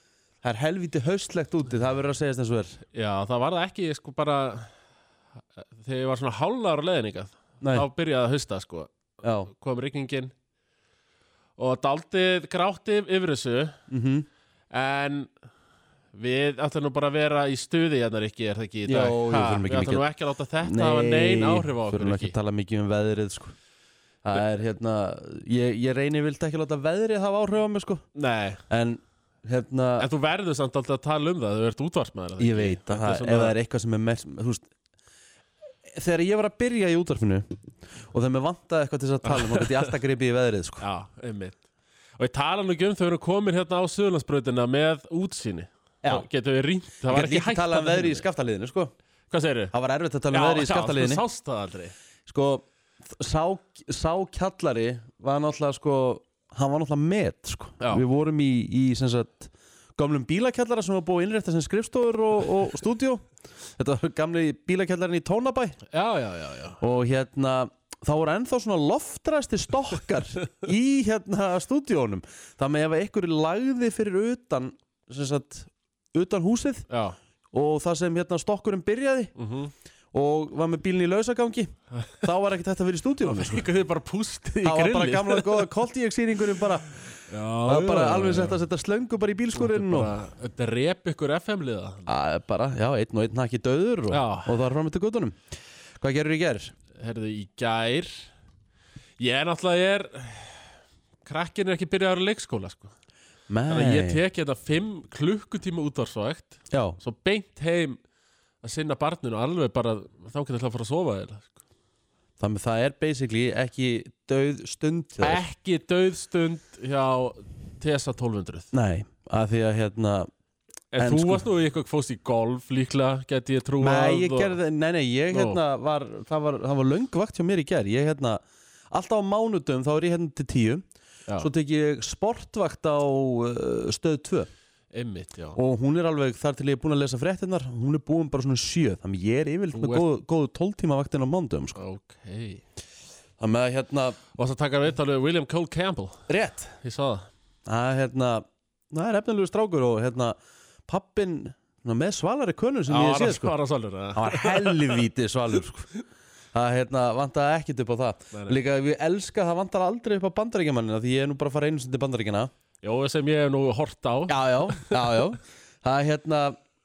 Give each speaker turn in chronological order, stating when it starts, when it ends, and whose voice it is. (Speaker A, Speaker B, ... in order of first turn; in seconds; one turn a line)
Speaker A: 0.4-2.8
Speaker B: 2.9-4.7
Speaker B: 5.6-8.9
Speaker A: 7.6-7.8
Speaker A: 9.2-9.5
Speaker B: 9.5-10.3
Speaker B: 11.6-13.8
Speaker A: 13.9-14.3
Speaker B: 14.7-15.3
Speaker B: 16.1-22.4
Speaker A: 18.9-20.1
Speaker A: 20.6-23.5
Speaker A: 24.2-28.0
Speaker B: 28.1-28.6
Speaker A: 28.7-30.1
Speaker B: 30.0-33.5
Speaker A: 32.4-34.7
Speaker A: 36.0-37.5
Speaker A: 38.1-40.8
Speaker B: 39.2-39.9
Speaker B: 40.8-41.6
Speaker B: 42.2-48.2
Speaker A: 47.1-48.9
Speaker B: 49.3-49.7
Speaker A: 49.7-51.2
Speaker B: 50.3-51.9
Speaker A: 52.3-63.2
Speaker A: 63.8-65.8
Speaker B: 65.9-66.8
Speaker A: 66.8-76.8
Speaker B: 76.9-77.2
Speaker A: 77.5-79.3
Speaker B: 79.4-79.7
Speaker A: 80.1-83.7
Speaker B: 83.2-85.7
Speaker A: 84.6-87.0
Speaker B: 87.3-88.6
Speaker A: 87.7-90.1
Speaker B: 89.5-92.0
Speaker A: 92.0-95.4
Speaker B: 94.1-94.5
Speaker A: 96.0-96.7
Speaker B: 96.9-98.2
Speaker B: 99.2-100.6
Speaker B: 101.2-102.9
Speaker A: 103.5-104.2
Speaker B: 103.7-108.0
Speaker A: 106.7-107.0
Speaker B: 108.6-111.5
Speaker A: 112.4-115.4
Speaker B: 115.2-118.7
Speaker A: 118.7-120.3
Speaker B: 120.9-124.6
Speaker A: 121.0-121.4
Speaker A: 123.8-130.8
Speaker B: 125.3-125.6
Speaker A: 131.4-134.5
Speaker B: 134.9-135.6
Speaker A: 135.5-141.8
Speaker B: 139.7-140.1
Speaker B: 141.8-142.6
Speaker A: 143.4-144.2
Speaker B: 144.3-146.2
Speaker A: 146.3-146.7
Speaker B: 146.8-147.3
Speaker A: 147.7-150.3
Speaker A: 150.9-153.5
Speaker B: 152.9-155.0
Speaker A: 154.2-155.9
Speaker A: 156.5-162.5
Speaker B: 162.8-165.2
Speaker A: 164.3-166.6